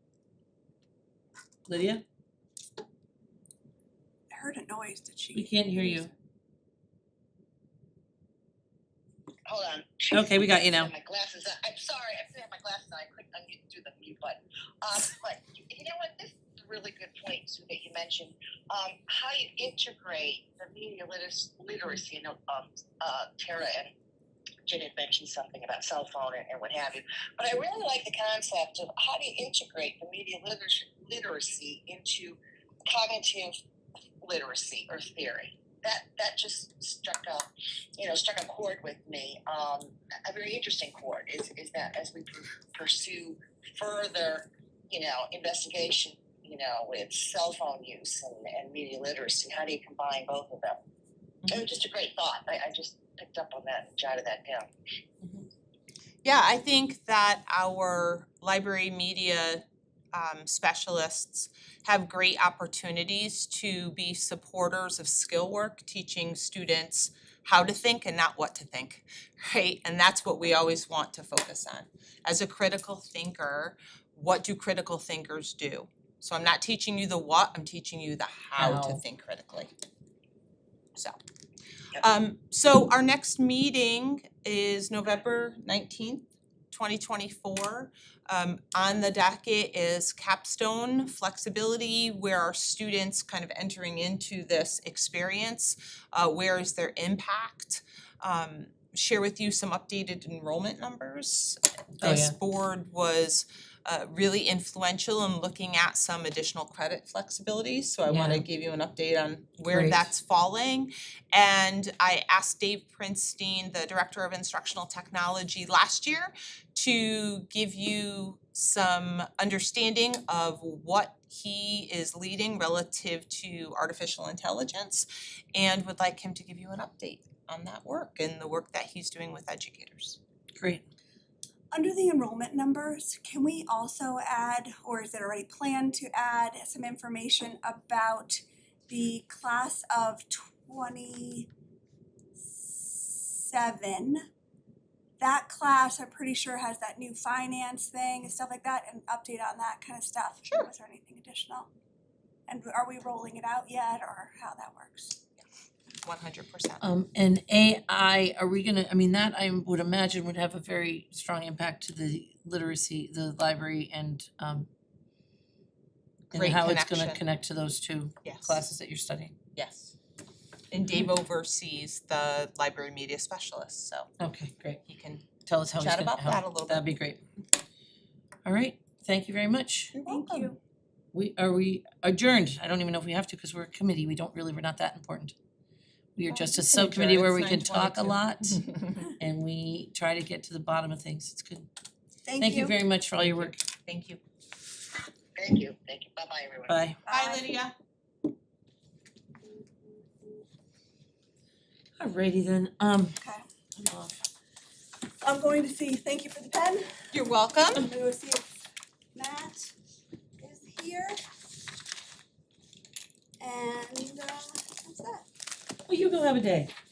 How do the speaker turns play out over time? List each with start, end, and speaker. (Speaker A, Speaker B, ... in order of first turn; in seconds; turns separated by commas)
Speaker A: 1.7-2.0, Speaker B: 4.3-6.1, Speaker A: 5.3-6.1, Speaker C: 9.5-23.9, Speaker A: 10.1-10.9, Speaker C: 24.7-33.6, Speaker C: 34.2-37.5, Speaker C: 38.0-50.8, Speaker C: 51.5-54.7, Speaker D: 55.2-55.5, Speaker D: 56.2-79.7, Speaker A: 78.6-79.0, Speaker D: 82.0-130.2, Speaker A: 102.0-102.4, Speaker A: 108.1-108.5, Speaker A: 109.7-110.1, Speaker A: 130.6-130.8, Speaker B: 131.7-141.5, Speaker B: 142.4-144.2, Speaker B: 145.2-151.7, Speaker B: 152.5-155.2, Speaker D: 156.0-156.8, Speaker A: 156.8-164.7, Speaker D: 166.3-167.2, Speaker A: 166.3-169.3, Speaker D: 168.2-168.6, Speaker D: 169.6-169.9, Speaker D: 170.7-174.1, Speaker A: 174.2-174.8, Speaker D: 174.9-176.9, Speaker A: 175.4-177.2, Speaker A: 178.4-179.9, Speaker D: 179.9-180.5, Speaker B: 180.1-180.6, Speaker A: 181.1-185.3, Speaker A: 186.2-191.7, Speaker D: 186.5-189.0, Speaker B: 192.2-192.8, Speaker A: 192.4-193.6, Speaker D: 193.2-194.2, Speaker C: 195.4-196.8, Speaker A: 196.7-197.0, Speaker B: 197.1-197.5, Speaker D: 197.1-197.8, Speaker A: 202.0-203.2, Speaker B: 203.2-203.4, Speaker A: 203.8-204.2, Speaker B: 205.2-207.0, Speaker D: 207.1-207.9, Speaker B: 207.7-208.5, Speaker B: 209.2-209.7, Speaker B: 210.4-211.2, Speaker B: 213.4-215.3, Speaker A: 215.9-216.7